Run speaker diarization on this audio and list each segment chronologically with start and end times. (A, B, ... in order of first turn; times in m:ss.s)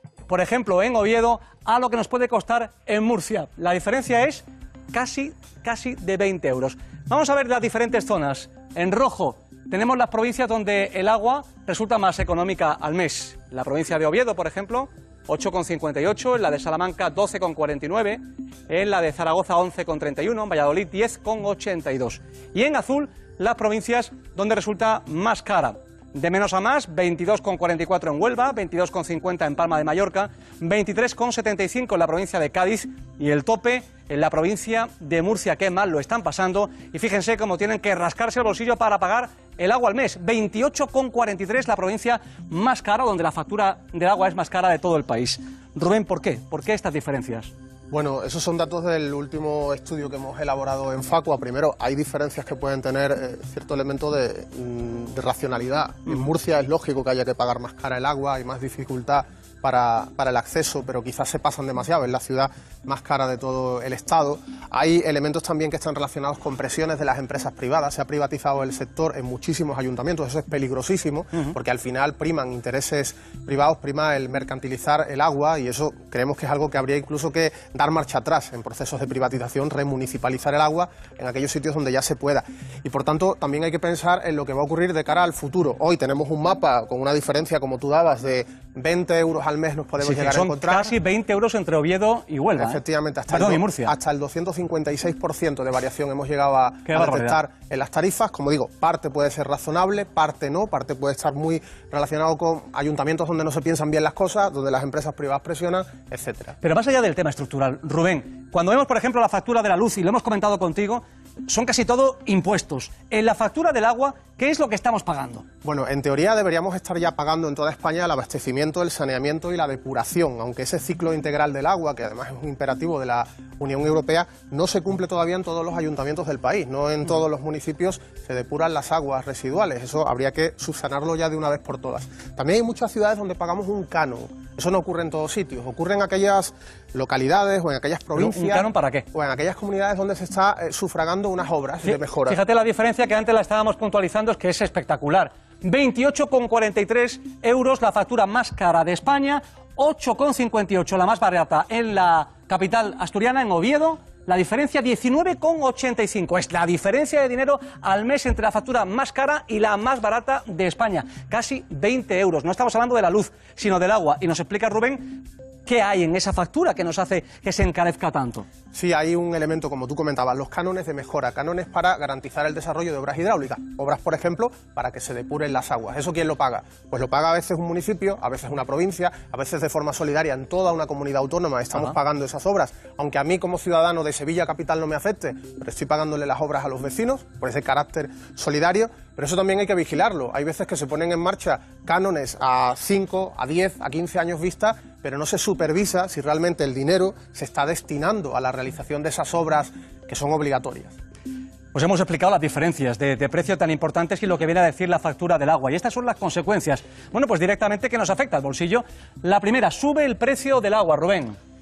0:00.3-0:47.5 A
0:47.9-1:30.9 B
1:30.0-1:33.9 A
1:32.6-1:46.6 B
1:36.9-1:37.4 A
1:46.6-1:55.4 A
1:55.6-2:22.4 B
2:18.2-2:19.0 A
2:21.8-2:48.5 A
2:48.7-3:20.9 B
3:21.7-3:31.4 A